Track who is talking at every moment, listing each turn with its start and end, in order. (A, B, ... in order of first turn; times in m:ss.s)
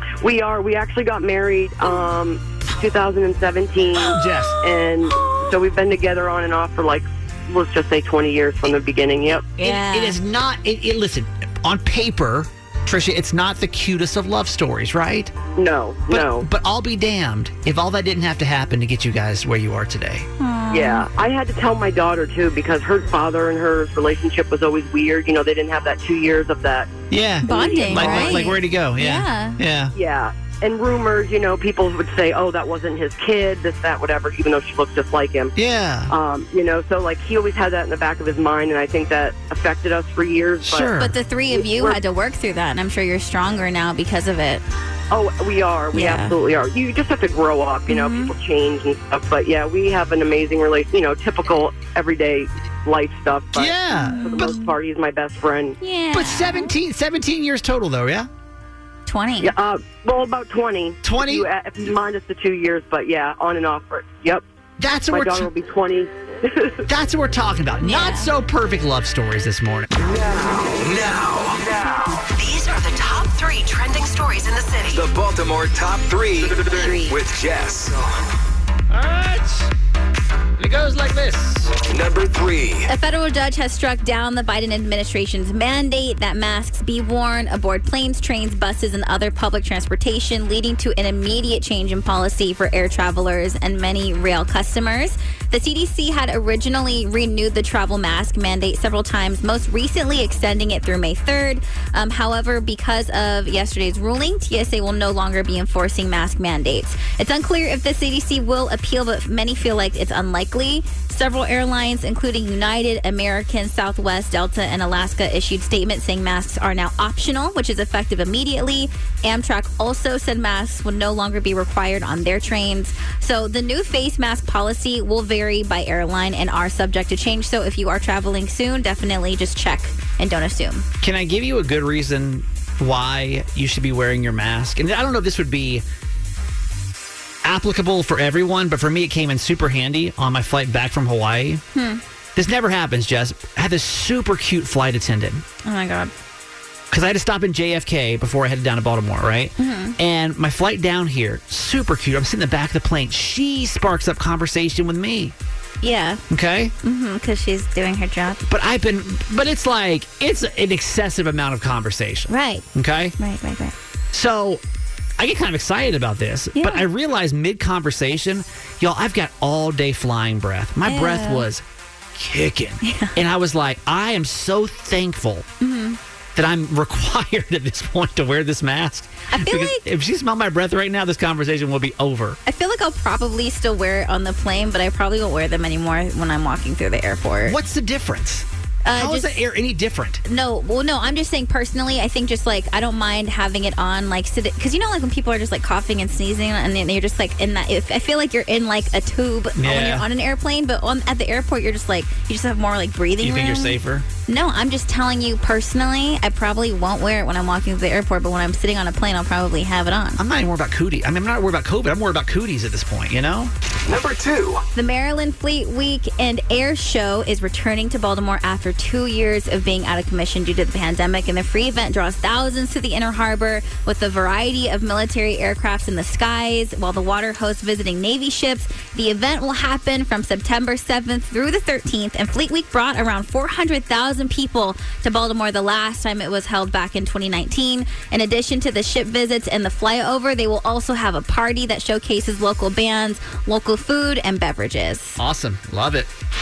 0:00.2-0:09.4 A
0:04.1-0:04.6 B
0:05.0-0:05.5 C
0:09.3-0:10.2 C
0:09.6-0:15.3 B
0:15.5-0:16.5 A
0:16.1-0:20.3 B
0:20.4-0:21.1 C
0:20.7-0:26.9 A
0:27.1-0:29.9 B
0:27.4-0:29.6 C
0:27.4-0:28.5 A
0:29.9-0:35.5 A
0:35.6-0:36.1 B
0:36.1-0:40.9 A
0:40.6-0:41.1 B
0:41.0-0:44.6 C
0:41.5-0:42.0 A
0:45.1-0:55.8 A
0:45.9-0:46.4 C
0:47.9-0:48.3 C
0:53.5-0:54.5 B
0:53.9-0:54.7 C
0:55.8-0:56.7 C
0:56.1-0:58.3 B
0:59.0-0:59.5 C
0:59.4-1:04.4 A
1:01.0-1:01.5 B
1:04.8-1:05.5 B
1:05.1-1:06.8 A
1:06.8-1:09.9 B
1:07.8-1:08.3 C
1:10.0-1:12.2 D
1:12.3-1:15.0 E
1:14.9-1:18.2 D
1:16.7-1:17.2 C
1:18.9-1:19.7 B
1:20.6-1:21.8 B
1:21.8-1:22.9 D
1:22.9-2:10.8 C
2:11.0-2:15.8 B
2:17.4-2:21.6 B
2:21.7-2:22.0 C
2:22.4-2:25.4 B
2:25.6-2:26.1 C
2:26.9-2:35.3 B
2:29.6-2:30.0 C
2:35.8-2:36.2 C
2:36.3-2:36.7 B
2:36.8-2:38.4 C
2:38.5-2:43.2 B
2:42.3-2:42.6 C
2:43.2-2:43.7 C
2:44.1-2:44.6 B
2:45.2-2:51.6 B
2:46.5-2:46.8 C
2:50.8-2:51.5 C
2:52.1-2:55.5 B
2:52.8-2:53.2 C
2:55.6-2:56.0 C
2:56.3-3:02.4 B
2:59.3-2:59.8 C
3:02.4-3:07.6 C
3:07.4-3:10.2 B
3:08.8-3:09.4 C
3:10.2-3:30.2 C
3:19.6-3:20.0 B
3:23.2-3:24.0 B
3:30.2-3:33.5 B
3:33.8-3:34.6 D
3:34.7-4:05.2 C
4:05.2-4:06.1 B